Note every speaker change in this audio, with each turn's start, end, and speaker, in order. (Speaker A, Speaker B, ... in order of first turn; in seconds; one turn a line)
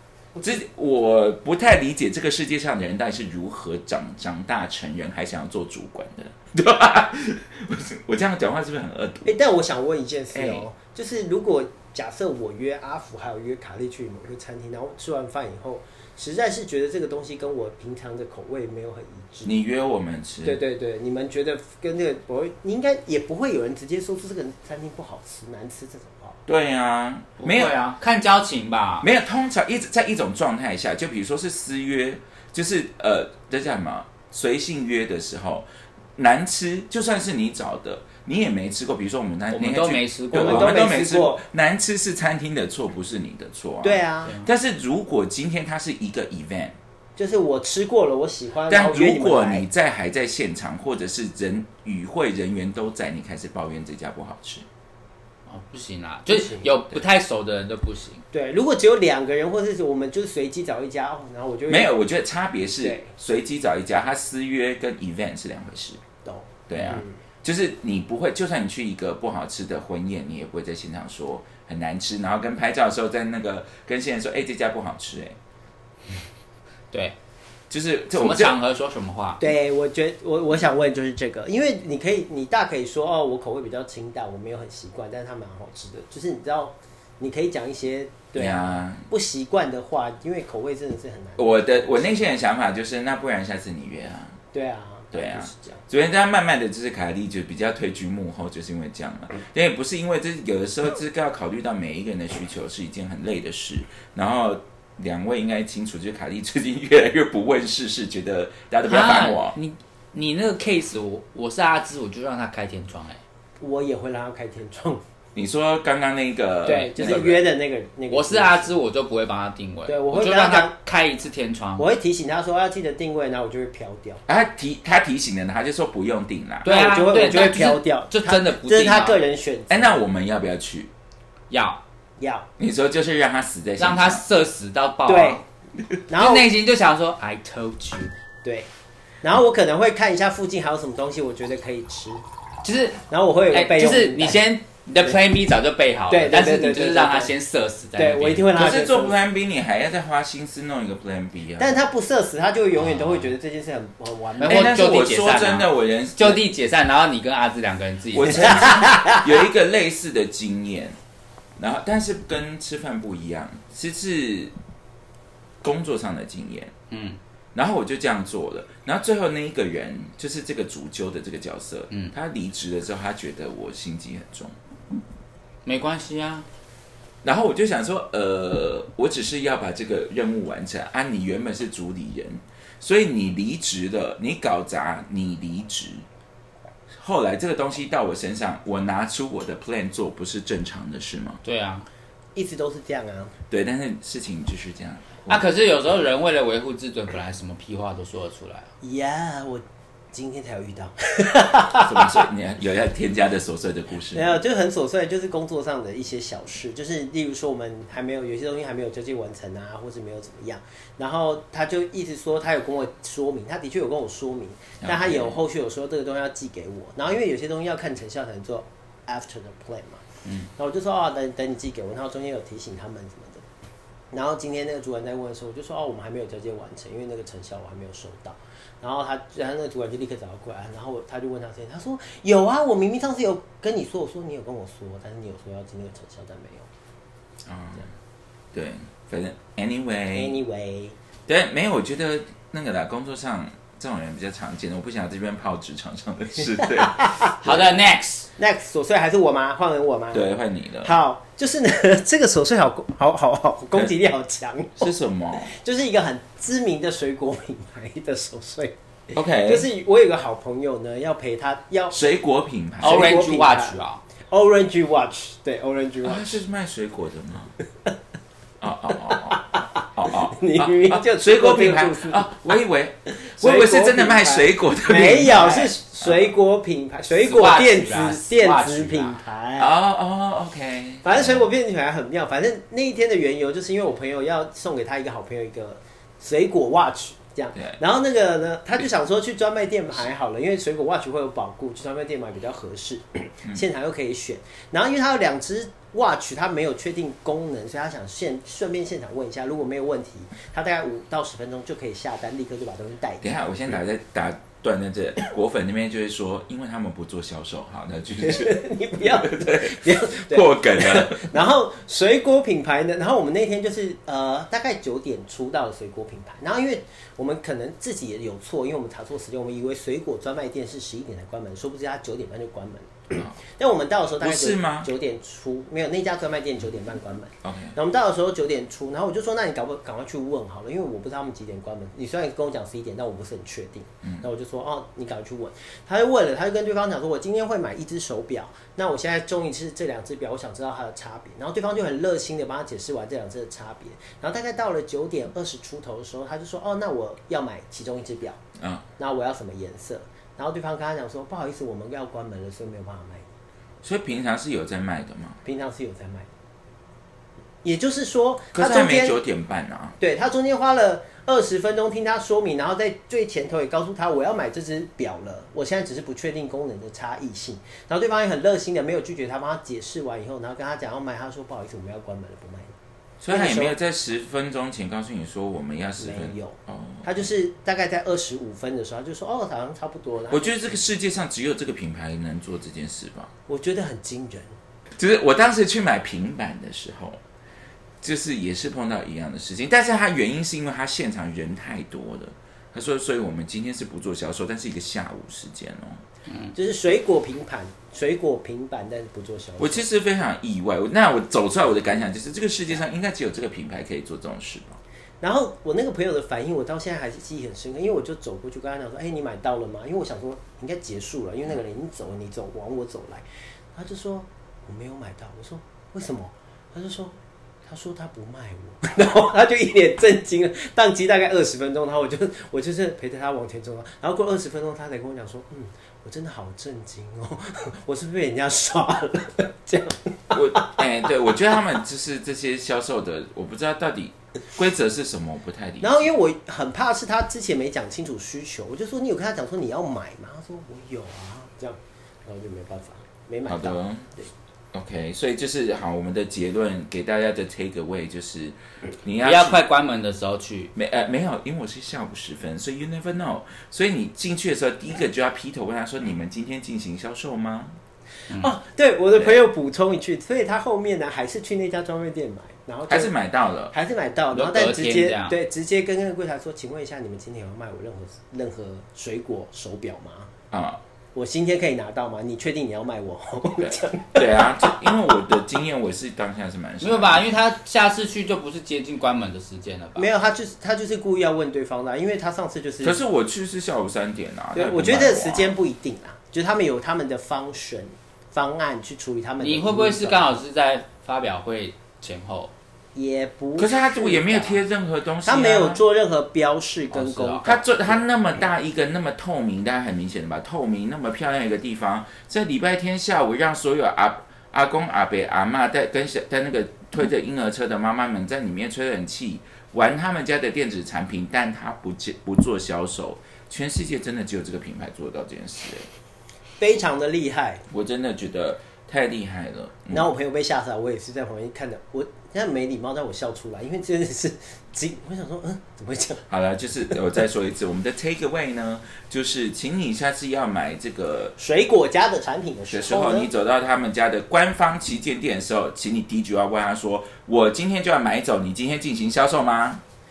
Speaker A: 0.3-0.6
Speaker B: 0.4-9.3
Speaker A: 9.3-19.5
Speaker B: 10.3-10.7
Speaker B: 19.4-20.6
Speaker A: 20.4-26.4
Speaker B: 26.5-27.8
Speaker C: 27.4-29.1
Speaker B: 29.0-46.8
Speaker C: 39.5-40.8
Speaker A: 40.3-41.4
Speaker A: 43.8-44.4
Speaker A: 47.2-49.6
Speaker B: 48.7-54.7
Speaker C: 55.5-58.2
Speaker A: 56.3-56.7
Speaker A: 58.3-61.9
Speaker B: 61.7-66.0
Speaker A: 62.8-63.1
Speaker A: 66.2-67.2
Speaker B: 66.7-75.4
Speaker B: 77.7-78.6
Speaker C: 78.1-79.4
Speaker A: 79.4-92.3
Speaker B: 88.4-89.0
Speaker B: 91.4-94.4
Speaker A: 94.5-95.8
Speaker B: 95.1-109.5
Speaker C: 108.9-113.2
Speaker A: 113.6-115.0
Speaker B: 115.3-117.4
Speaker A: 116.7-118.8
Speaker C: 116.7-117.3
Speaker C: 118.1-121.9
Speaker A: 119.9-120.7
Speaker A: 121.8-124.2
Speaker B: 124.3-126.7
Speaker C: 126.7-129.2
Speaker A: 126.7-130.0
Speaker B: 129.7-130.9
Speaker C: 131.5-131.8
Speaker A: 132.2-132.5
Speaker B: 132.6-134.2
Speaker C: 133.8-135.4
Speaker A: 135.1-135.4
Speaker A: 136.1-136.5
Speaker C: 136.1-138.1
Speaker A: 139.2-142.2
Speaker C: 142.6-148.5
Speaker A: 143.1-144.4
Speaker A: 146.1-147.3
Speaker A: 148.0-149.2
Speaker B: 148.5-151.8
Speaker A: 151.6-154.8
Speaker C: 152.8-153.3
Speaker C: 154.4-158.8
Speaker B: 154.4-156.4
Speaker B: 158.1-161.0
Speaker A: 158.4-159.3
Speaker B: 161.6-164.5
Speaker B: 165.6-166.7
Speaker C: 166.9-167.2
Speaker B: 167.6-174.6
Speaker C: 175.7-176.5
Speaker B: 177.2-186.1
Speaker B: 186.9-191.4
Speaker C: 191.4-191.9
Speaker A: 192.4-193.3
Speaker B: 193.5-195.5
Speaker C: 195.3-198.7
Speaker A: 198.8-202.3
Speaker B: 201.8-204.4
Speaker A: 204.1-220.0
Speaker B: 214.8-215.4
Speaker A: 220.6-223.4
Speaker A: 224.1-236.7
Speaker B: 237.4-237.9
Speaker B: 238.5-240.4
Speaker A: 240.1-241.0
Speaker B: 241.3-247.8
Speaker A: 246.8-247.3
Speaker C: 247.4-248.3
Speaker A: 248.4-250.3
Speaker B: 250.1-250.9
Speaker A: 250.8-262.0
Speaker B: 254.8-255.5
Speaker B: 259.1-259.7
Speaker B: 261.9-263.2
Speaker A: 262.8-266.4
Speaker C: 262.8-264.0
Speaker B: 266.0-267.5
Speaker B: 268.6-276.3
Speaker A: 269.1-272.4
Speaker A: 273.1-279.7
Speaker C: 277.2-279.2
Speaker B: 279.6-281.5
Speaker A: 281.0-303.3
Speaker B: 303.2-311.3
Speaker A: 308.2-348.4
Speaker B: 323.1-323.4
Speaker B: 324.2-324.9
Speaker B: 327.4-327.8
Speaker B: 348.6-348.8
Speaker A: 349.0-353.3
Speaker B: 353.8-355.4
Speaker A: 355.4-356.3
Speaker A: 357.6-359.2
Speaker B: 358.5-360.0
Speaker A: 360.0-372.7
Speaker B: 373.2-377.2
Speaker A: 373.3-373.8
Speaker A: 376.0-380.8
Speaker B: 380.3-383.3
Speaker A: 383.5-384.6
Speaker B: 385.0-387.2
Speaker B: 388.0-396.0
Speaker A: 396.5-399.9
Speaker B: 399.6-404.8
Speaker A: 405.2-430.8
Speaker B: 430.3-436.1
Speaker A: 435.8-444.3
Speaker B: 443.5-444.1
Speaker B: 444.7-449.6
Speaker C: 449.2-450.7
Speaker B: 450.8-457.8
Speaker A: 458.3-463.1
Speaker B: 459.2-459.4
Speaker B: 462.9-463.7
Speaker A: 463.7-470.3
Speaker C: 464.3-465.4
Speaker B: 470.5-470.8
Speaker A: 471.1-474.9
Speaker B: 473.6-477.3
Speaker C: 476.8-480.1
Speaker A: 480.0-483.0
Speaker B: 482.8-485.5
Speaker A: 484.5-490.4
Speaker C: 489.4-492.5
Speaker A: 492.9-494.6
Speaker B: 493.6-495.8
Speaker A: 495.2-498.0
Speaker C: 496.9-497.4
Speaker B: 497.4-515.9
Speaker A: 516.6-517.6
Speaker B: 517.7-520.1
Speaker A: 519.9-526.2
Speaker B: 526.3-531.4
Speaker A: 531.4-533.3
Speaker B: 532.7-539.8